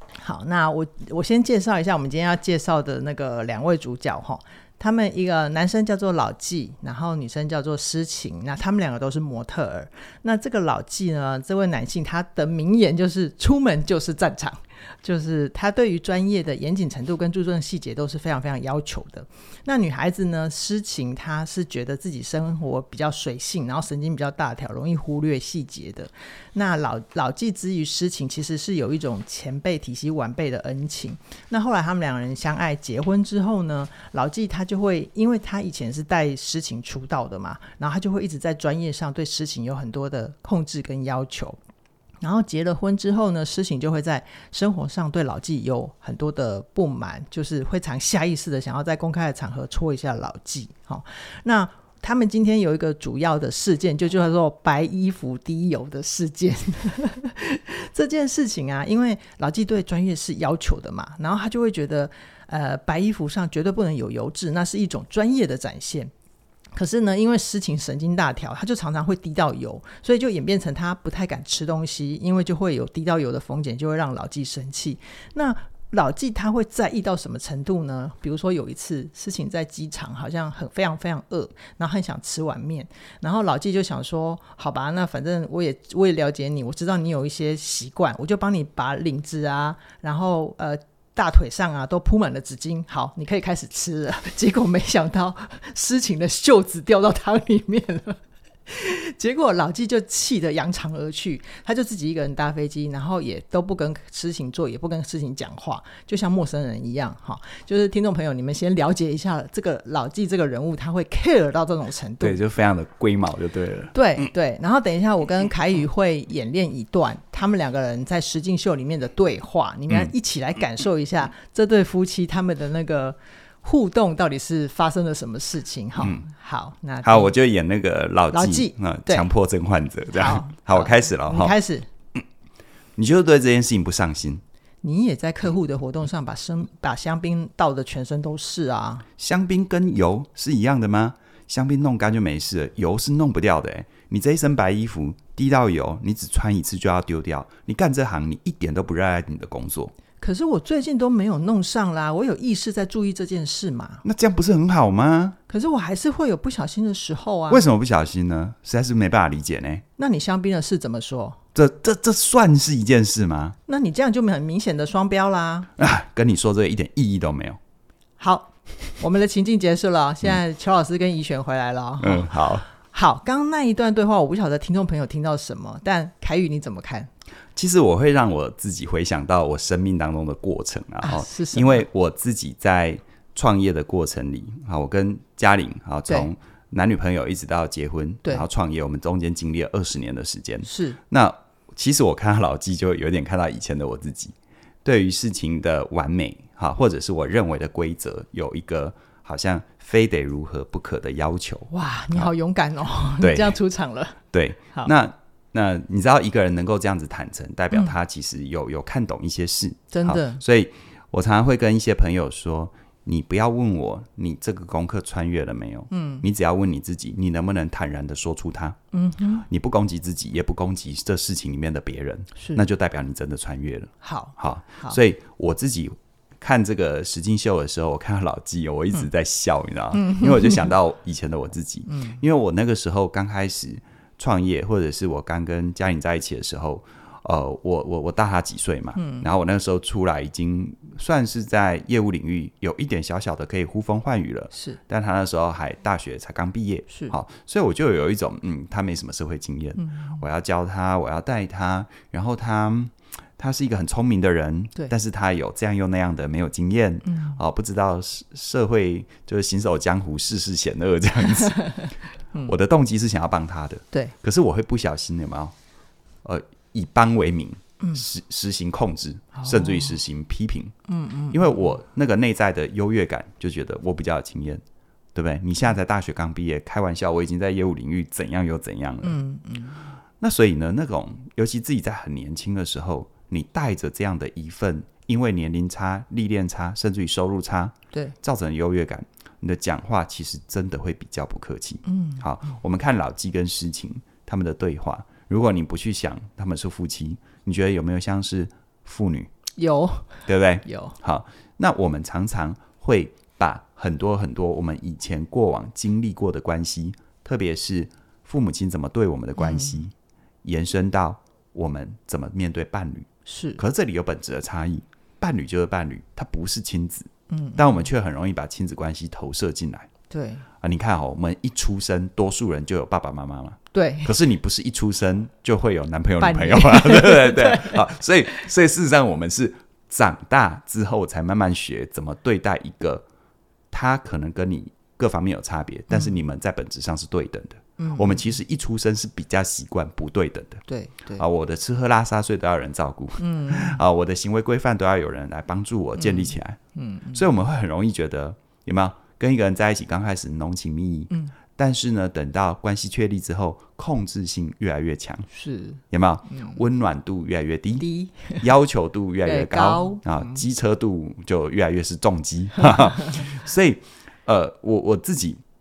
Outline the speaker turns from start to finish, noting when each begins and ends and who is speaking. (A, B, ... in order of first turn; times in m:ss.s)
0:00.2-0:41.6 A
0:42.2-1:06.1 A
1:06.7-1:52.4 A
1:52.2-1:54.3 B
1:53.9-2:07.3 A
2:07.0-2:11.6 B
2:08.3-2:09.3 A
2:10.1-2:11.9 A
2:13.0-2:14.4 B
2:14.8-2:19.0 A
2:19.2-2:29.9 B
2:30.2-2:34.0 A
2:34.0-2:35.4 B
2:35.5-2:37.6 A
2:37.5-2:39.8 B
2:40.0-2:41.4 A
2:41.5-2:43.6 B
2:43.7-2:45.7 A
2:45.8-2:47.6 B
2:48.2-2:57.1 A
2:52.0-2:52.6 B
2:57.6-3:22.3 B
3:01.0-3:01.8 A
3:10.6-3:11.0 A
3:21.7-3:24.2 A
3:23.2-3:23.6 B
3:24.3-3:38.8 B
3:29.9-3:30.4 A
3:35.9-3:36.2 A
3:38.9-3:39.4 A
3:39.4-4:21.6 B
3:42.4-3:42.6 A
3:44.0-3:45.0 A
3:49.9-3:50.7 A
3:51.8-3:52.2 A
3:59.0-3:59.3 A
4:04.5-4:04.8 A
4:06.9-4:07.1 A
4:09.8-4:10.2 A
4:17.0-4:17.4 A
4:21.4-4:22.5 A
4:22.4-4:25.5 B
4:26.2-4:30.7 B
4:29.3-4:29.9 A
4:30.9-4:31.4 A
4:31.3-4:34.6 B
4:35.1-4:39.2 B
4:39.0-4:39.8 A
4:40.2-4:59.3 B
4:51.8-4:52.2 A
4:59.6-5:00.9 A
5:00.3-5:09.9 B
5:09.4-5:09.8 A
5:10.4-5:19.9 B
5:13.2-5:13.6 A
5:17.3-5:17.8 A
5:20.1-5:20.4 A
5:20.6-5:33.0 B
5:23.7-5:24.1 A
5:26.2-5:28.4 A
5:33.7-5:40.6 B
5:35.9-5:36.2 A
5:37.8-5:38.2 A
5:40.7-5:41.2 A
5:41.2-5:46.6 B
5:43.2-5:43.8 A
5:46.0-5:47.2 A
5:47.1-5:55.3 B
5:55.3-5:56.6 A
5:55.9-6:05.4 B
5:57.8-5:58.4 A
5:59.2-6:00.0 A